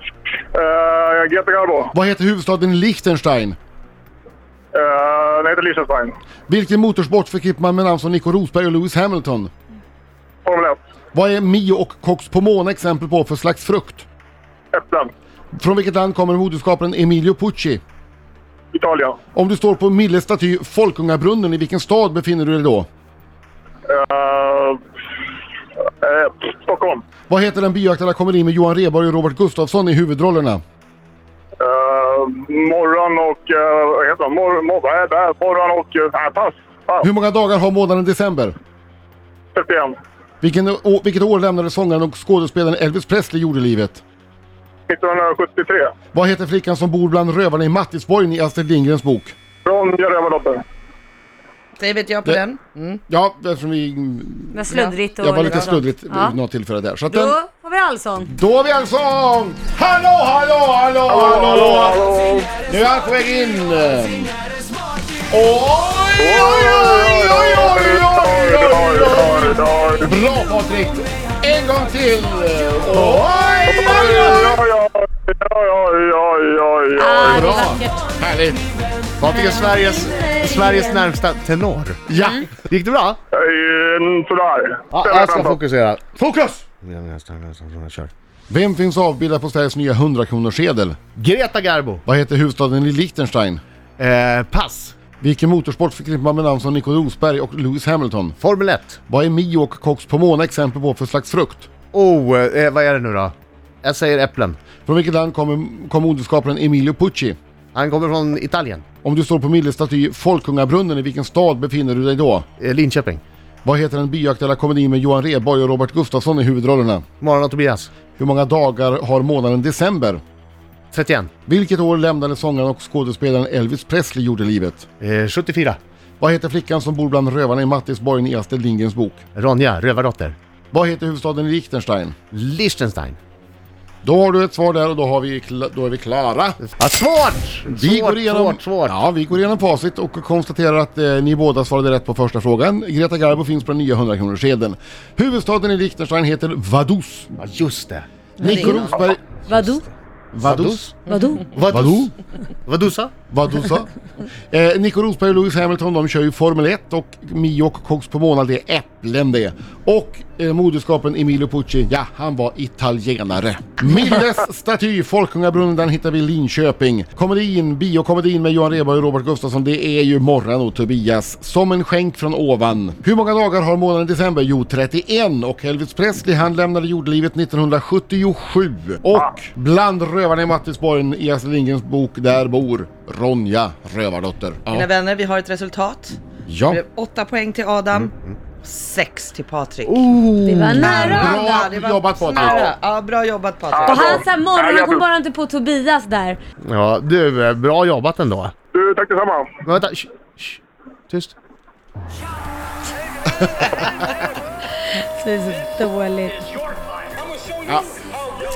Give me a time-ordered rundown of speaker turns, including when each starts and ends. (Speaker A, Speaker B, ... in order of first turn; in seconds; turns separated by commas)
Speaker A: 0.5-1.9, Speaker B: 1.9-3.6, Speaker A: 4.7-6.2, Speaker B: 6.5-9.5, Speaker A: 10.4-10.8, Speaker B: 11.1-14.1, Speaker A: 14.7-15.1, Speaker B: 15.5-17.8, Speaker A: 18.7-19.2, Speaker B: 19.3-22.9, Speaker A: 23.9-24.8, Speaker A: 26.0-27.0, Speaker B: 27.3-30.6, Speaker A: 31.6-37.1, Speaker B: 37.0-38.5, Speaker A: 39.5-40.0, Speaker B: 40.4-44.0, Speaker A: 44.9-45.9, Speaker B: 46.1-49.3, Speaker A: 49.6-50.6, Speaker C: 51.8-53.0, Speaker B: 53.1-57.4, Speaker D: 54.5-56.4, Speaker C: 54.7-55.8, Speaker D: 57.1-58.3, Speaker B: 58.2-62.0, Speaker A: 61.1-62.5, Speaker B: 62.7-64.3, Speaker B: 65.3-74.5, Speaker A: 66.2-70.1, Speaker E: 72.9-74.5, Speaker A: 73.7-77.5, Speaker D: 77.0-77.9, Speaker E: 77.2-77.8, Speaker B: 77.3-78.6, Speaker E: 79.2-82.0, Speaker D: 79.3-80.0, Speaker B: 82.1-82.5, Speaker D: 82.1-82.5, Speaker E: 82.6-83.2, Speaker A: 83.3-85.6, Speaker E: 84.9-88.1, Speaker B: 88.5-91.0, Speaker E: 91.2-92.0, Speaker B: 92.0-93.6, Speaker E: 94.0-94.9, Speaker B: 95.2-98.4, Speaker E: 98.4-99.0, Speaker B: 99.1-101.7, Speaker E: 101.9-104.6, Speaker B: 104.8-107.4, Speaker E: 107.7-108.8, Speaker B: 109.0-112.5, Speaker E: 112.6-113.2, Speaker B: 113.6-117.0, Speaker E: 117.2-117.9, Speaker B: 118.2-120.2, Speaker E: 120.9-121.3, Speaker B: 121.5-124.9, Speaker E: 125.0-125.8, Speaker B: 126.2-129.2, Speaker E: 129.3-130.4, Speaker B: 130.7-132.2, Speaker E: 132.3-133.2, Speaker B: 134.0-136.6, Speaker E: 136.6-139.0, Speaker B: 137.7-147.3, Speaker E: 147.4-148.8, Speaker B: 148.4-149.4, Speaker D: 148.4-148.8, Speaker C: 148.5-148.9, Speaker D: 149.5-149.8, Speaker B: 150.3-150.9, Speaker E: 150.4-150.9, Speaker D: 151.1-151.6, Speaker E: 151.5-152.1, Speaker B: 151.6-152.1, Speaker E: 152.7-153.1, Speaker B: 153.3-153.9, Speaker B: 154.5-184.9, Speaker C: 184.7-190.1, Speaker B: 186.4-186.8, Speaker E: 189.8-191.1, Speaker D: 190.4-191.6, Speaker B: 190.5-192.7, Speaker C: 190.8-194.3, Speaker A: 192.3-192.7, Speaker A: 193.7-195.0, Speaker D: 193.8-196.4, Speaker E: 196.6-198.5, Speaker A: 198.7-199.5, Speaker E: 199.6-201.3, Speaker D: 205.2-206.5